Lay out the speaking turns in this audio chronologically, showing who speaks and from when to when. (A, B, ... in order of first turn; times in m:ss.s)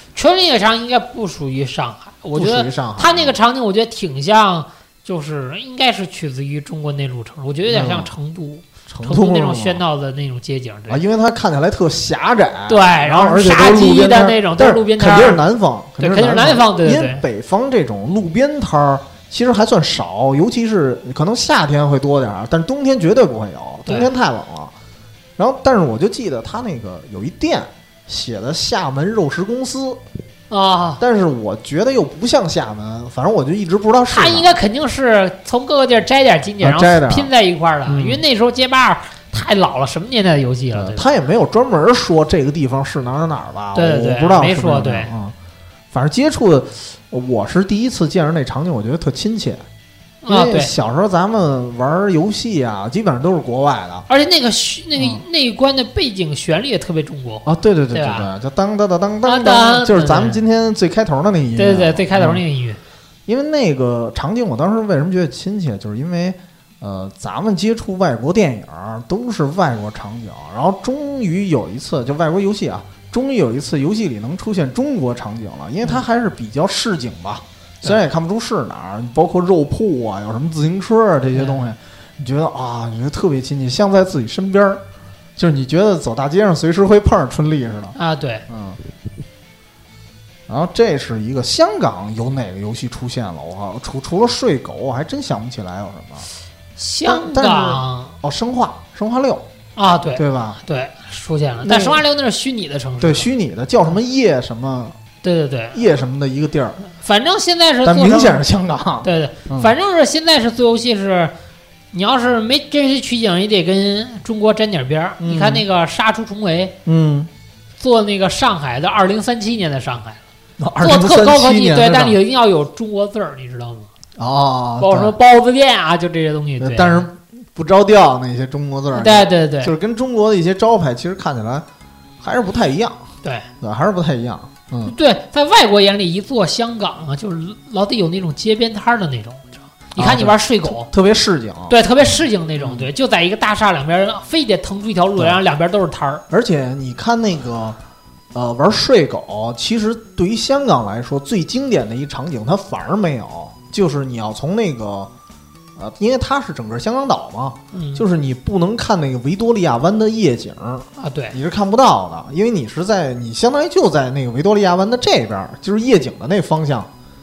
0:00.1-0:11.0 A
0:02.3-0:03.4 B
0:07.7-0:08.1 B
0:08.9-0:09.8 B
0:10.9-0:24.7 B
0:12.7-0:15.4 A
0:16.0-0:17.2 A
0:25.4-0:30.0 B
0:30.5-0:31.0 A
0:31.0-0:34.6 B
0:34.1-0:41.0 A
0:36.6-0:37.3 B
0:37.9-0:38.2 B
0:40.7-0:45.3 B
0:43.7-0:45.1 A
0:45.9-0:49.6 B
0:50.2-0:50.7 A
0:50.3-0:54.0 B
0:54.1-0:58.3 A
0:55.0-0:55.2 B
0:57.4-1:02.4 B
0:59.2-1:00.4 A
1:01.6-1:02.8 A
1:03.3-1:24.8 B
1:21.3-1:21.7 A
1:25.4-1:28.0 B
1:28.0-1:28.4 A
1:28.5-1:28.8 B
1:30.5-1:36.3 B
1:36.8-1:38.1 A
1:37.0-1:39.4 B
1:39.8-1:43.3 A
1:40.1-1:40.6 B
1:41.6-1:42.0 B
1:43.0-1:45.0 B
1:45.2-1:45.8 A
1:45.7-1:46.8 B
1:47.0-1:48.4 A
1:47.8-1:49.7 B
1:49.0-1:51.3 A
1:51.9-1:56.7 A
1:55.2-1:55.6 B
1:56.8-1:57.3 B
1:57.8-2:00.2 A
2:00.6-2:02.2 B
2:00.8-2:03.9 A
2:04.2-2:05.1 B
2:04.8-2:07.0 A
2:06.6-2:11.6 B
2:08.9-2:09.7 A
2:12.2-2:13.0 B
2:13.2-2:13.5 A
2:13.6-2:14.9 B
2:14.8-2:20.9 A
2:20.0-2:21.8 B
2:21.7-2:26.2 A
2:22.6-2:22.9 B
2:26.3-2:27.8 B
2:28.3-2:35.1 B
2:35.8-2:46.9 B
2:37.7-2:38.0 A
2:41.0-2:41.4 A